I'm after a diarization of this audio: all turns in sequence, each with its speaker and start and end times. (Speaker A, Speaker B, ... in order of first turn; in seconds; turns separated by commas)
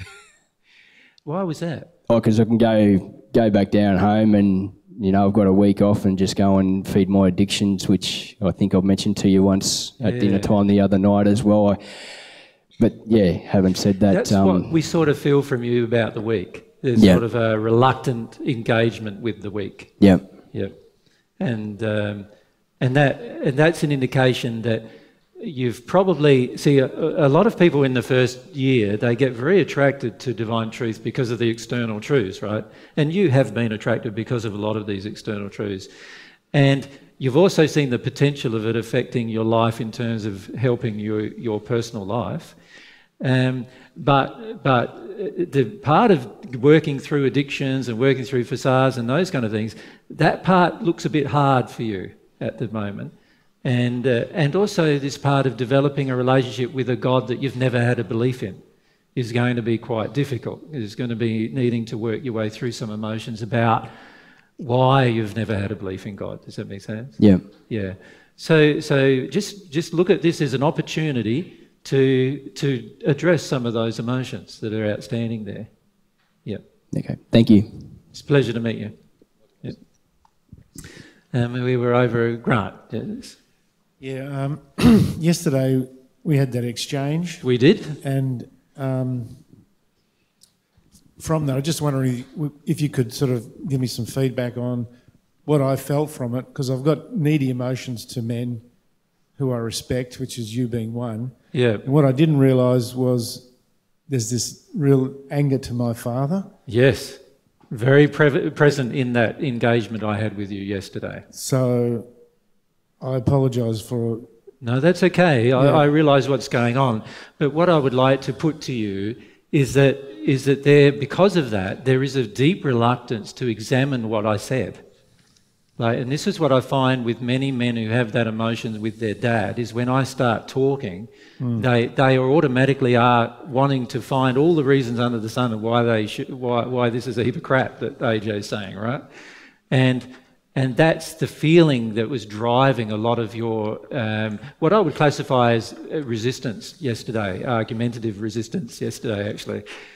Speaker A: 1.2-1.9, Speaker B: 2.1-11.8, Speaker A: 10.0-10.5, Speaker B: 12.8-14.8, Speaker A: 14.1-20.8, Speaker B: 16.9-17.2, Speaker B: 20.0-20.3, Speaker A: 21.4-22.3, Speaker A: 22.8-35.9, Speaker A: 36.5-42.5, Speaker A: 43.2-58.6, Speaker A: 59.1-63.9, Speaker A: 64.6-75.7, Speaker B: 67.2-67.4, Speaker B: 76.9-78.0, Speaker A: 78.1-79.0, Speaker A: 81.3-83.4, Speaker C: 84.0-89.5, Speaker A: 87.4-88.0, Speaker C: 91.2-94.9, Speaker C: 95.4-98.7, Speaker C: 99.3-103.5, Speaker A: 101.5-101.9, Speaker C: 104.0-106.5, Speaker A: 106.7-111.2, Speaker C: 111.3-112.1, Speaker C: 113.0-114.3, Speaker A: 114.6-124.8, Speaker C: 115.6-115.8, Speaker A: 125.8-139.0, Speaker C: 131.4-131.7, Speaker A: 139.7-149.6